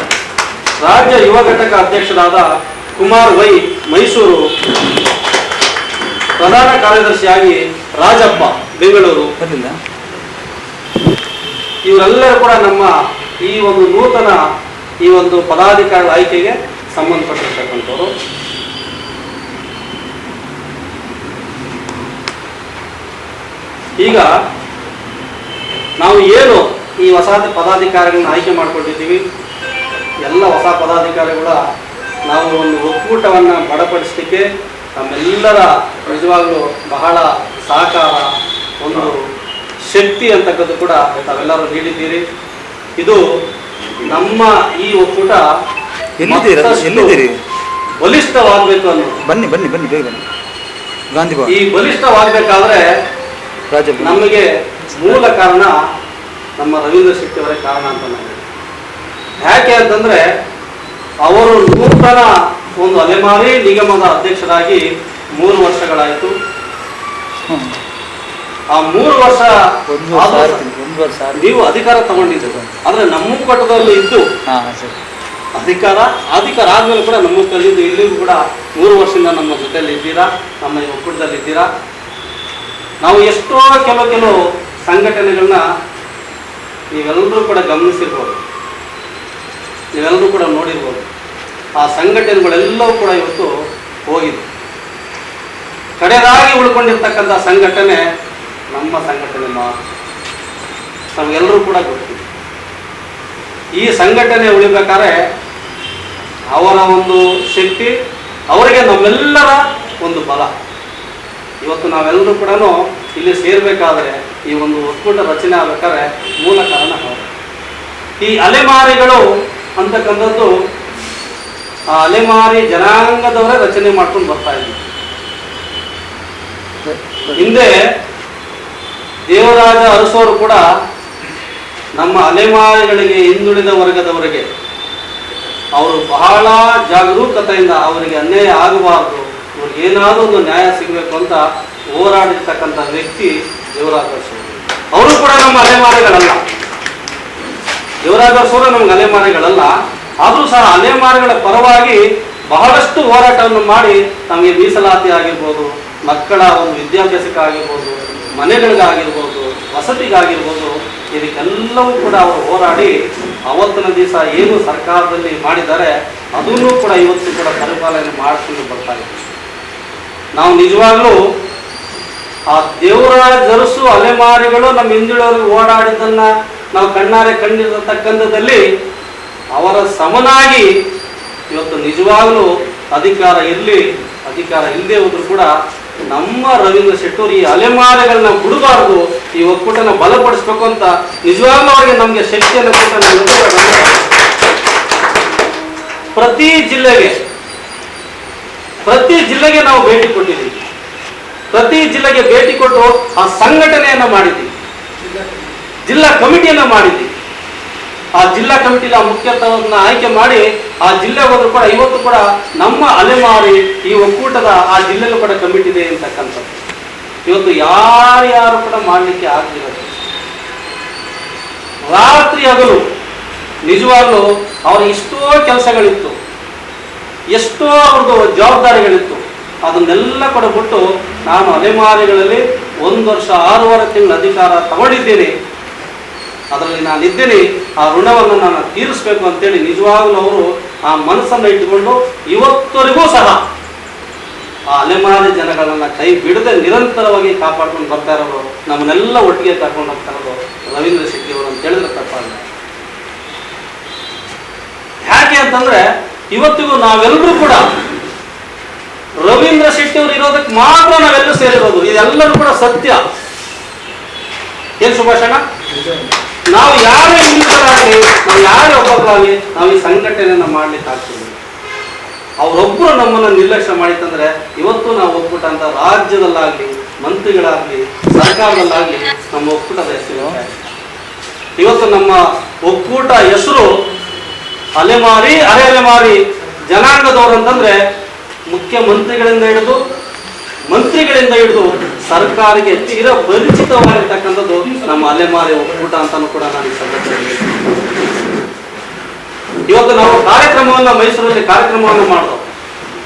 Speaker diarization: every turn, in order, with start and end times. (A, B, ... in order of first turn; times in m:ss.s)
0:00.8-0:04.5 A
0:06.4-0:09.3 A
0:09.4-0:09.8 B
0:11.8-0:14.4 A
0:15.0-0:18.1 A
0:24.0-0:24.3 A
0:26.0-0:29.2 A
0:30.2-0:31.6 A
0:32.2-0:34.5 A
0:35.0-0:38.3 A
0:38.8-0:39.2 A
0:39.9-0:42.2 A
0:43.0-0:43.2 A
0:44.0-0:45.4 A
0:46.2-0:47.4 B
0:46.2-0:47.2 A
0:48.0-0:49.2 A
0:49.2-0:50.2 B
0:51.1-0:51.6 B
0:51.5-0:52.9 A
0:53.7-0:54.2 B
0:54.0-0:55.8 A
0:55.0-0:55.2 B
0:56.6-0:58.4 A
0:59.4-1:00.2 A
1:01.2-1:04.8 A
1:05.4-1:06.3 A
1:07.5-1:07.8 B
1:08.7-1:09.6 A
1:09.9-1:12.7 B
1:10.1-1:10.6 A
1:11.4-1:14.2 A
1:14.5-1:15.0 B
1:15.6-1:21.7 A
1:23.0-1:25.6 A
1:26.9-1:28.4 A
1:30.0-1:31.1 A
1:31.8-1:33.5 A
1:34.1-1:34.5 A
1:36.0-1:38.0 A
1:38.7-1:39.8 A
1:41.2-1:42.2 A
1:43.8-1:45.2 A
1:46.5-1:48.0 A
1:48.5-1:50.5 A
1:51.6-1:57.3 A
1:58.2-1:59.2 A
1:59.8-2:00.5 A
2:01.9-2:04.8 A
2:06.8-2:07.6 B
2:07.4-2:07.8 A
2:09.3-2:10.6 A
2:12.0-2:14.5 A
2:15.8-2:26.4 A
2:28.0-2:42.9 A
2:43.5-2:49.3 A
2:50.4-2:51.2 A
2:52.5-2:58.6 A
2:59.5-3:00.7 A
3:01.5-3:05.5 A
3:06.1-3:14.1 A
3:16.2-3:17.2 A
3:18.8-3:20.7 A
3:21.5-3:24.5 A
3:25.9-3:27.1 A
3:28.2-3:36.6 A
3:37.3-3:40.0 A
3:41.9-3:42.8 A
3:43.6-3:46.2 A
3:47.3-3:55.3 A
3:56.5-4:03.4 A
4:04.7-4:12.4 A
4:15.1-4:17.7 A
4:19.2-4:23.0 A
4:24.8-4:25.4 A
4:26.5-4:31.4 A
4:32.4-4:40.7 A
4:41.6-4:43.7 A
4:44.8-4:47.8 A
4:48.5-4:49.8 A
4:50.7-4:57.6 A
4:59.7-5:02.4 A